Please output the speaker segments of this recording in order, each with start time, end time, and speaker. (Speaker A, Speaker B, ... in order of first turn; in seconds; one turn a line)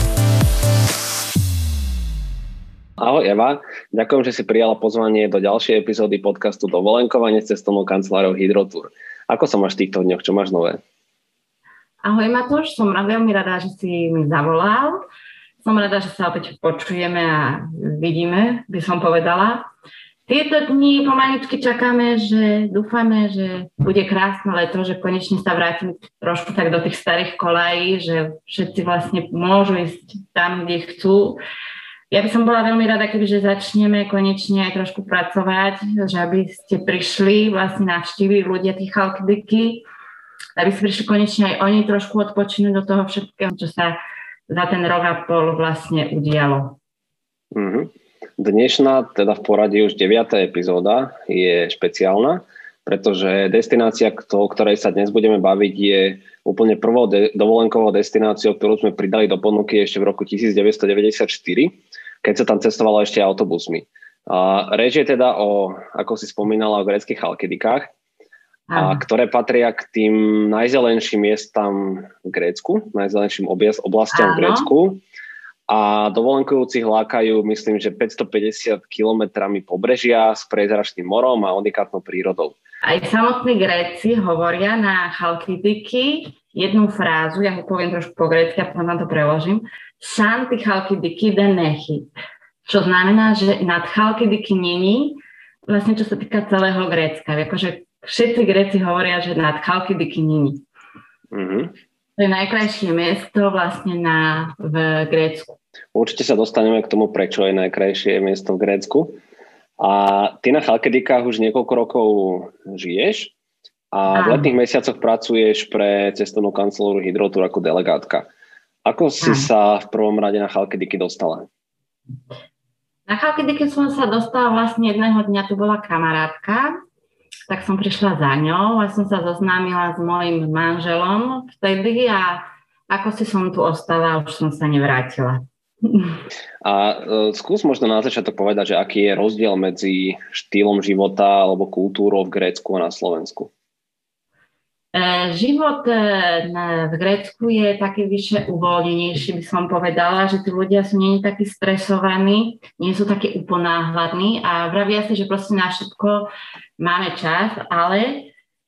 Speaker A: 3.0-10.8
Speaker B: 12.0-15.0
Speaker B: 15.6-19.6
Speaker B: 20.3-31.4
Speaker B: 32.1-39.8
Speaker B: 40.6-44.0
Speaker B: 44.5-46.8
Speaker A: 47.5-67.9
Speaker B: 68.7-69.0
Speaker A: 68.8-75.0
Speaker B: 74.1-74.7
Speaker A: 75.7-82.6
Speaker B: 82.8-92.1
Speaker B: 92.7-100.6
Speaker A: 101.3-101.7
Speaker B: 102.2-105.6
Speaker A: 105.9-109.2
Speaker A: 109.8-113.3
Speaker A: 113.9-118.3
Speaker B: 114.1-114.5
Speaker A: 118.8-121.5
Speaker B: 119.2-119.5
Speaker B: 123.1-126.7
Speaker B: 127.5-136.2
Speaker A: 136.6-143.5
Speaker B: 144.9-158.3